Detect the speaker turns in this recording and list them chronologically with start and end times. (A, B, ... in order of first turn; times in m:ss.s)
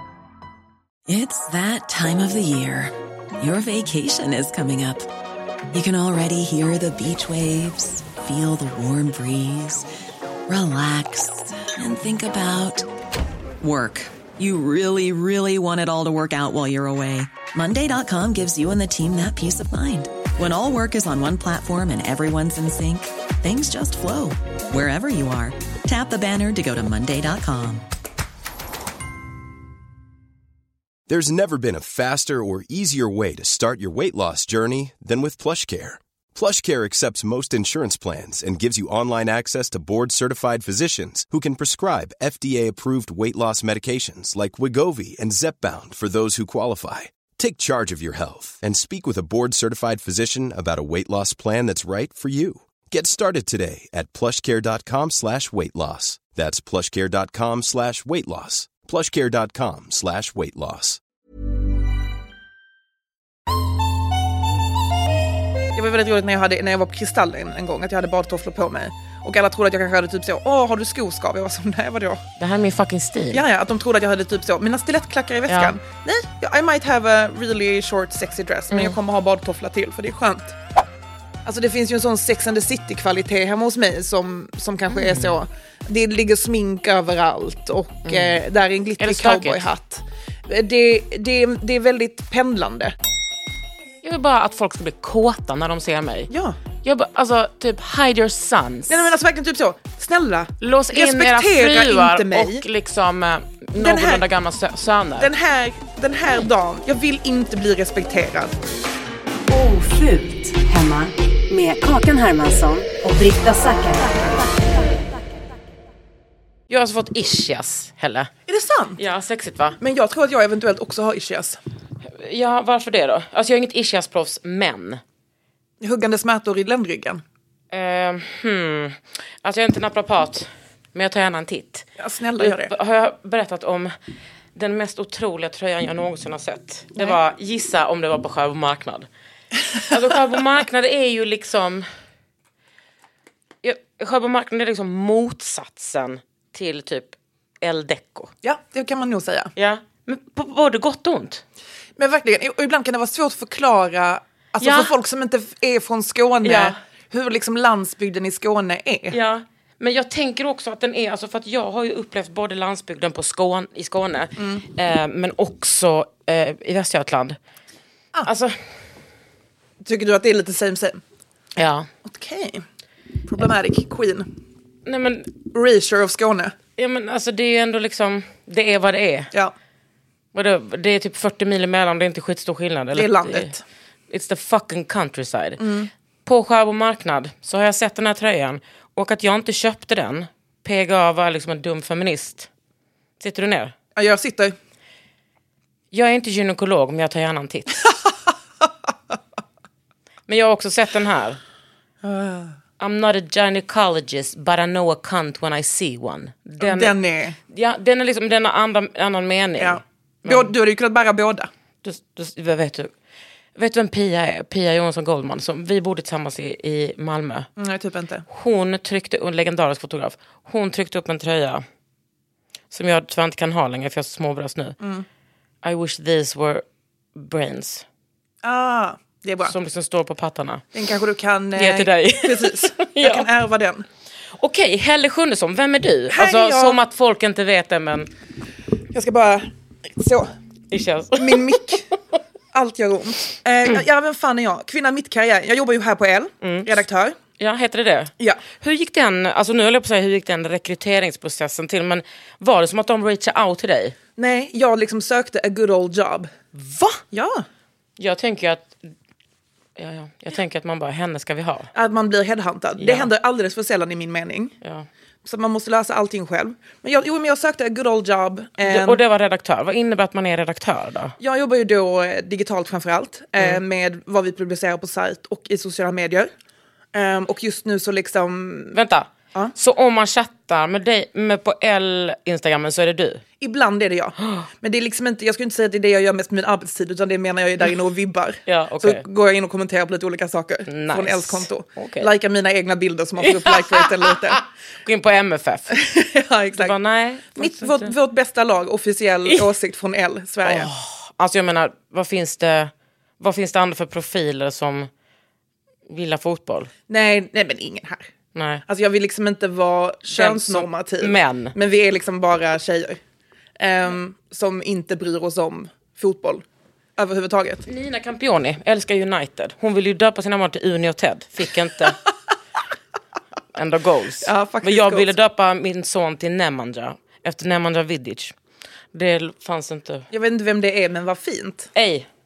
0:01.1-0:05.1 A
0:05.7-0:09.9 A
0:10.5-0:12.9 A
0:13.6-0:27.9 A
0:31.1-1:01.0 B
1:05.8-1:12.2 C
1:12.4-1:13.4 D
1:13.3-1:20.6 C
1:15.5-1:15.8 D
1:18.7-1:19.0 D
1:21.4-1:32.9 C
1:24.9-1:25.4 D
1:28.1-1:28.4 D
1:29.0-1:29.7 D
1:34.0-1:36.3 D
1:36.3-1:36.6 C
1:36.8-1:39.1 D
1:38.9-1:42.6 C
1:40.6-1:45.3 D
1:43.8-1:44.2 C
1:45.2-1:48.6 C
1:49.5-1:55.1 E
1:56.7-1:58.3 D
1:58.5-1:59.0 C
1:59.0-1:59.8 D
1:59.8-2:01.6 C
2:02.2-2:05.0 D
2:05.8-2:07.2 C
2:07.7-2:11.9 D
2:12.0-2:12.7 C
2:12.4-2:13.9 D
2:14.6-2:19.1 D
2:19.9-2:21.9 D
2:23.6-2:28.3 D
2:28.4-2:29.5 C
2:29.6-2:31.4 D
2:32.0-2:39.2 C
2:34.6-2:34.9 D
2:36.4-2:36.8 D
2:39.1-2:47.4 D
2:44.4-2:44.6 C
2:48.2-2:48.6 D
2:49.8-2:51.0 C
2:51.6-2:51.9 D
2:52.0-2:52.6 C
2:53.3-2:54.3 C
2:54.9-2:55.3 D
2:55.5-2:56.5 C
2:56.8-2:59.3 D
3:00.3-3:03.6 D
3:03.0-3:03.6 C
3:04.1-3:05.6 D
3:05.6-3:05.9 C
3:06.2-3:12.5 D
3:13.2-3:13.8 D
3:14.0-3:14.6 C
3:15.9-3:17.9 D
3:20.3-3:21.4 D
3:22.0-3:22.5 C
3:22.8-3:27.0 D
3:26.6-3:27.4 C
3:27.5-3:30.5 D
3:29.6-3:31.5 C
3:31.8-3:32.9 D
3:33.6-3:37.5 D
3:37.6-3:38.3 C
3:38.3-3:41.6 D
3:42.7-3:44.8 D
3:44.8-3:45.1 C
3:45.6-3:46.6 D
3:47.2-3:47.8 D
3:48.4-3:49.5 C
3:49.4-3:50.7 D
3:50.7-3:53.8 C
3:51.6-3:53.3 D
3:54.4-3:58.1 D
3:56.1-3:56.8 C
3:58.9-4:00.3 C
4:00.7-4:01.7 D
4:01.2-4:01.9 C
4:02.5-4:07.2 C
4:06.4-4:06.7 D
4:07.4-4:14.0 D
4:14.2-4:16.3 C
4:16.6-4:17.0 D
4:17.1-4:17.5 C
4:18.0-4:18.9 D
4:19.8-4:21.7 D
4:21.7-4:24.6 C
4:22.8-4:23.1 D
4:24.6-4:24.9 D
4:25.2-4:29.0 C
4:28.6-4:31.2 D
4:31.2-4:36.3 C
4:36.9-4:38.8 C
4:38.7-4:43.2 D
4:43.4-4:54.4 C
4:44.2-4:44.5 D
4:48.5-4:49.0 D
4:50.7-4:52.1 D
4:53.2-4:55.8 D
4:55.7-4:56.8 C
4:56.6-4:57.9 D
4:57.4-5:00.7 C
5:00.4-5:04.9 D
5:05.9-5:06.7 D
5:06.9-5:08.1 C
5:08.4-5:08.6 D
5:08.7-5:13.0 C
5:10.1-5:11.5 D
5:13.6-5:16.4 C
5:17.0-5:17.6 C
5:17.6-5:22.0 D
5:23.5-5:28.4 D
5:24.2-5:25.1 C
5:28.9-5:30.1 D
5:30.1-5:31.7 C
5:31.8-5:32.1 D